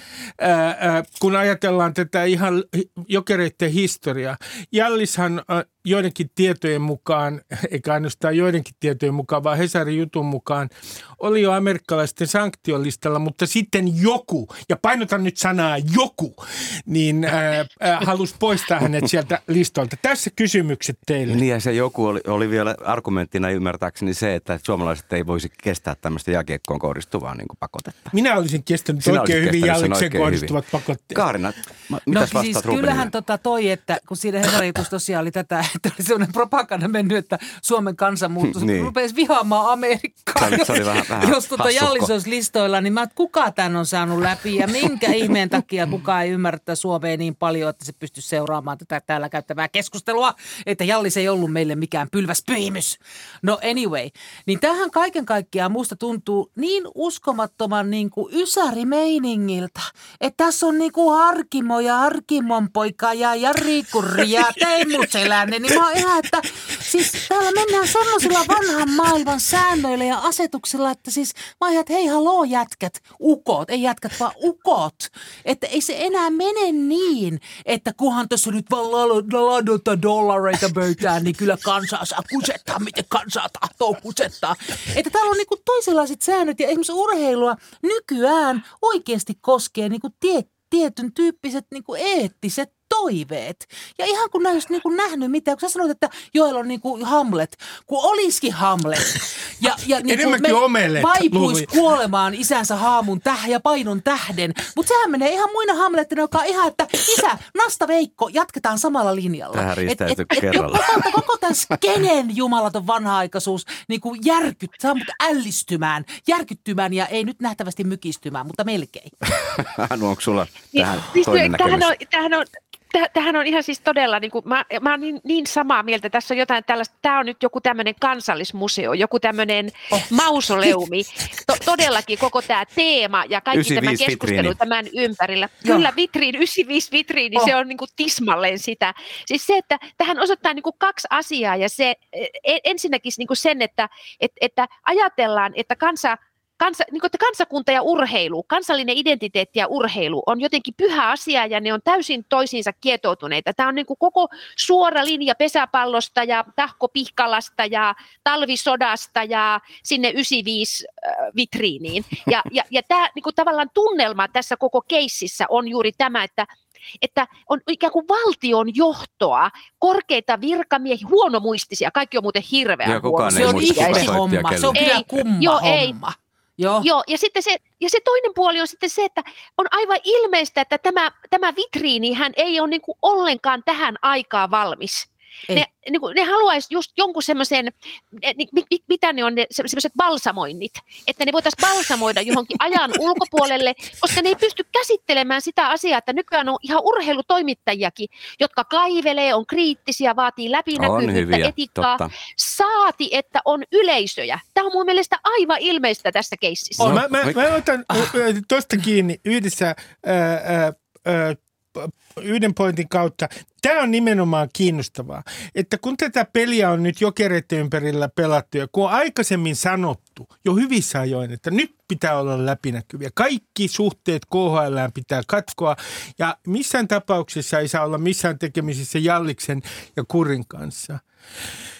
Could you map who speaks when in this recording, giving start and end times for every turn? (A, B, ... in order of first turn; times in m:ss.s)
0:00.4-0:21.4 A
0:21.3-0:28.1 B
0:28.1-0:31.2 A
0:29.0-0:30.5 B
0:31.1-0:33.1 B
0:32.1-1:59.1 C
0:38.5-0:38.9 B
0:40.4-0:42.1 B
1:40.0-1:41.7 A
1:49.5-1:51.1 B
1:59.2-2:01.9 B
2:00.7-2:46.5 D
2:13.5-2:14.6 B
2:47.0-2:54.2 D
2:52.8-2:54.8 B
2:53.3-2:56.9 C
2:54.7-2:56.0 D
2:56.8-3:27.0 D
3:20.8-3:22.1 B
3:26.8-3:51.0 A
3:26.8-3:27.5 B